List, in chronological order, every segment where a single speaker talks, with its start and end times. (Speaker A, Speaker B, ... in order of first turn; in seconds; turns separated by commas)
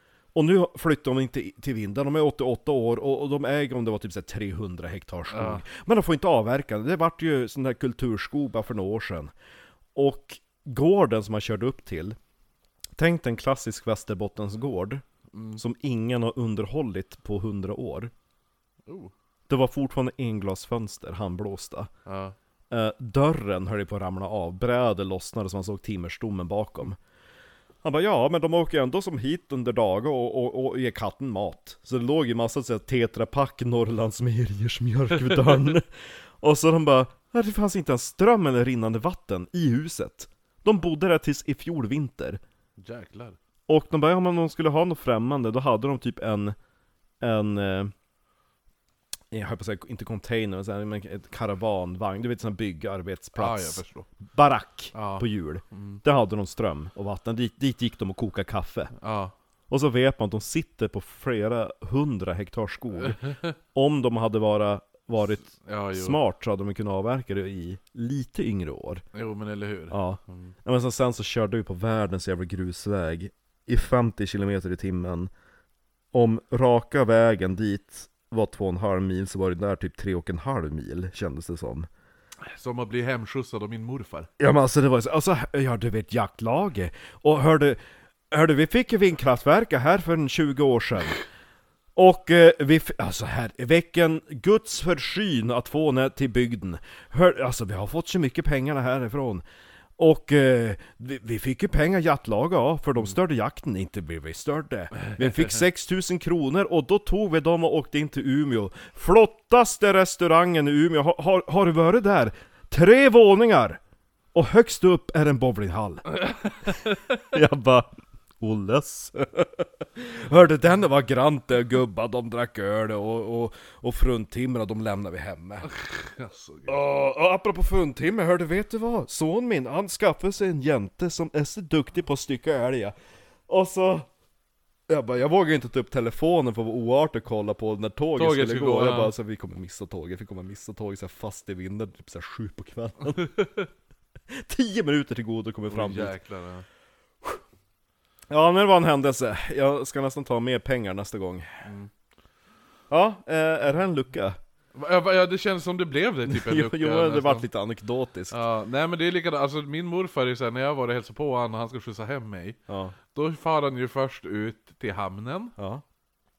Speaker A: 0.3-9.3, Speaker B: 5.3-5.6, Speaker A: 9.9-12.2, Speaker A: 13.0-15.0, Speaker B: 15.3-15.6, Speaker A: 15.6-18.1, Speaker B: 18.9-19.1, Speaker A: 19.5-21.9, Speaker B: 22.1-22.4, Speaker A: 22.7-27.0, Speaker A: 27.8-42.4, Speaker B: 42.8-43.4, Speaker A: 43.7-46.6, Speaker A: 47.2-47.9, Speaker A: 49.3-58.9, Speaker B: 53.4-54.1, Speaker B: 54.9-56.0, Speaker B: 59.0-59.3, Speaker A: 59.7-69.0, Speaker B: 65.5-66.2, Speaker B: 69.1-70.5, Speaker A: 69.9-75.3, Speaker A: 76.1-81.9, Speaker B: 82.5-84.3, Speaker A: 84.4-87.8, Speaker A: 88.3-91.2, Speaker A: 92.0-99.4, Speaker A: 100.0-113.8, Speaker A: 114.3-116.2, Speaker B: 116.2-116.9, Speaker A: 117.2-125.7, Speaker B: 125.6-126.8, Speaker A: 126.7-132.9, Speaker A: 133.5-134.1, Speaker A: 134.9-143.7, Speaker B: 138.2-139.2, Speaker A: 144.3-146.2, Speaker B: 145.7-146.7, Speaker A: 148.3-151.7, Speaker B: 151.7-151.9, Speaker A: 152.9-154.4, Speaker B: 154.7-157.5, Speaker A: 156.3-158.4, Speaker B: 158.3-162.6, Speaker A: 162.7-162.9, Speaker B: 163.1-165.5, Speaker A: 165.6-165.8